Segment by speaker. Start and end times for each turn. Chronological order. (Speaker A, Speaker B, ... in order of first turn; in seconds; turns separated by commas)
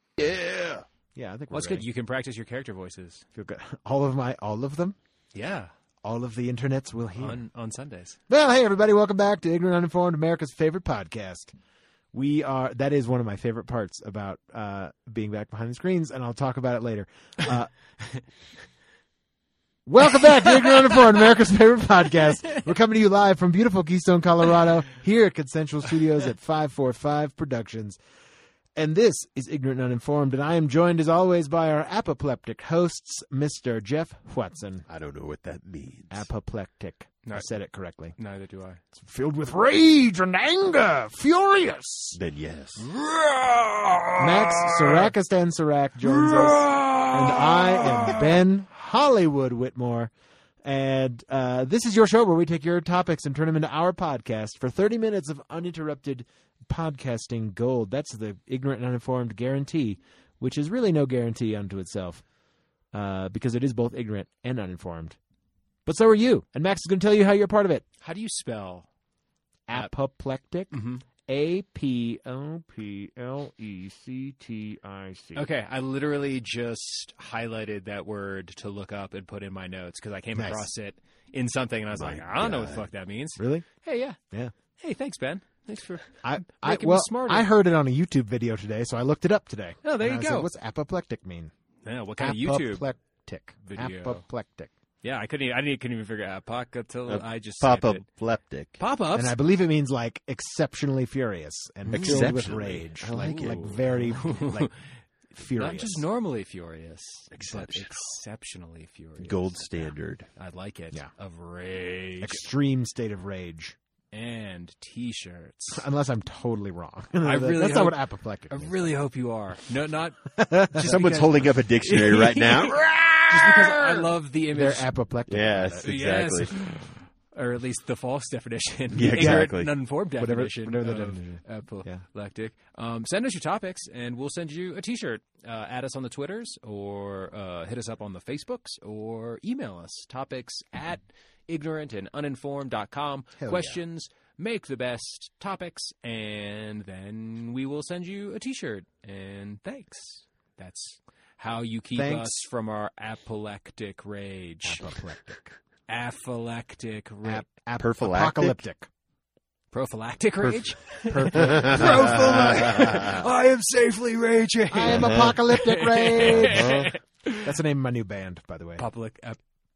Speaker A: 0.2-0.8, Speaker B: 1.1-1.9, Speaker C: 1.5-3.2, Speaker B: 3.4-5.0, Speaker C: 5.3-5.7, Speaker B: 6.0-7.4, Speaker C: 7.2-8.2, Speaker B: 8.3-11.5, Speaker B: 12.1-17.7, Speaker B: 19.9-28.0, Speaker B: 28.8-34.9, Speaker A: 34.9-36.3, Speaker B: 36.1-38.1, Speaker C: 38.2-38.8, Speaker B: 38.9-42.2, Speaker A: 42.1-42.9, Speaker C: 42.8-45.1, Speaker B: 44.2-50.1, Speaker C: 46.2-48.2, Speaker B: 50.6-62.2, Speaker B: 62.9-65.2, Speaker B: 65.9-67.8, Speaker C: 68.0-68.9, Speaker B: 69.7-75.5, Speaker C: 70.7-71.0, Speaker C: 75.3-84.2, Speaker B: 80.3-80.7, Speaker A: 81.9-82.9, Speaker B: 83.4-83.7, Speaker C: 84.8-87.5, Speaker B: 86.2-91.5, Speaker C: 89.8-90.5, Speaker C: 91.8-92.9, Speaker B: 92.2-94.7, Speaker C: 93.7-94.2, Speaker C: 95.0-98.0, Speaker A: 97.1-98.8, Speaker C: 98.8-99.4, Speaker B: 99.2-104.7, Speaker C: 101.9-102.3, Speaker A: 101.9-103.8, Speaker C: 103.2-104.7, Speaker B: 105.3-106.0, Speaker C: 105.6-109.7, Speaker A: 107.3-107.9, Speaker A: 109.2-110.3, Speaker C: 110.4-112.4, Speaker B: 112.2-113.8, Speaker C: 114.1-115.8, Speaker B: 115.7-118.9, Speaker C: 117.2-118.0, Speaker C: 118.5-124.9, Speaker B: 120.3-120.9, Speaker A: 120.8-122.8, Speaker B: 123.3-126.0, Speaker A: 125.3-126.6, Speaker C: 125.8-154.8, Speaker A: 128.9-129.7, Speaker B: 129.1-129.5, Speaker B: 130.2-132.1, Speaker B: 143.4-143.8, Speaker B: 151.9-152.3, Speaker B: 154.7-155.6, Speaker C: 155.9-157.5, Speaker B: 157.2-158.9, Speaker A: 157.8-158.6, Speaker C: 159.7-167.5, Speaker A: 160.4-160.7, Speaker B: 161.1-163.2, Speaker A: 161.3-163.2, Speaker B: 164.7-166.7, Speaker A: 164.8-165.4, Speaker A: 166.2-166.9, Speaker B: 167.4-168.9, Speaker C: 168.8-169.4